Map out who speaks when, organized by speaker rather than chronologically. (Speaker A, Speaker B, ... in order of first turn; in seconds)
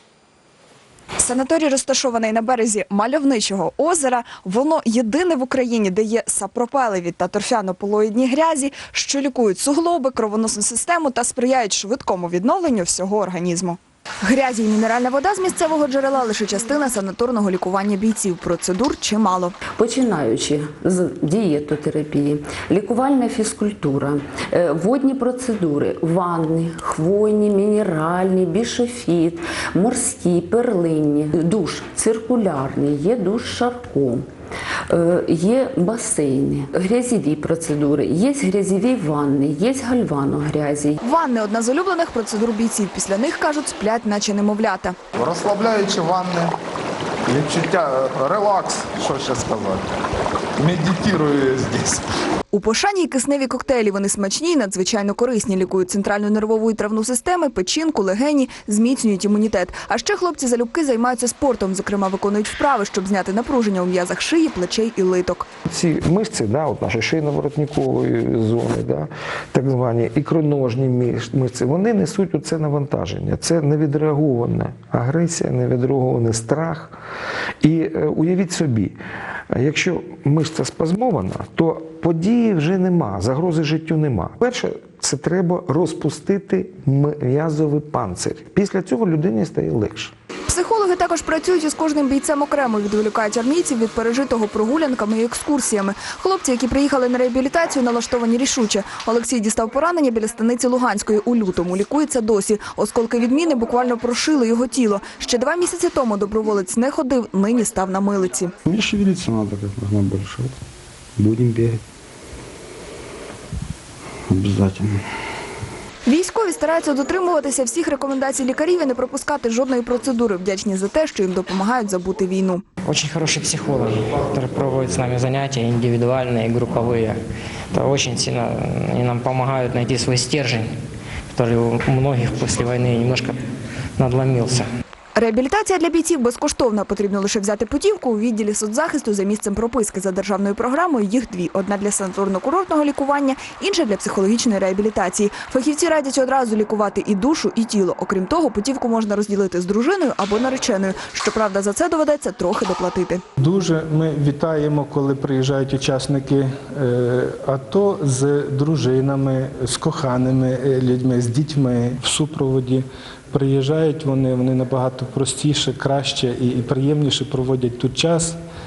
Speaker A: 1.2-19.6, 41.0-45.0, 52.5-65.5, 90.5-108.5, 116.1-122.6, 135.2-153.2
Speaker B: 19.7-34.3, 34.9-41.0
Speaker C: 45.1-46.5, 47.3-50.0, 50.6-52.1
Speaker D: 65.7-77.0, 77.6-79.0, 79.5-90.1
Speaker E: 108.6-110.5, 111.2-111.8, 114.3-115.0
Speaker F: 122.8-127.2, 127.7-130.7, 131.3-133.4, 134.0-134.7
Speaker G: 153.4-168.4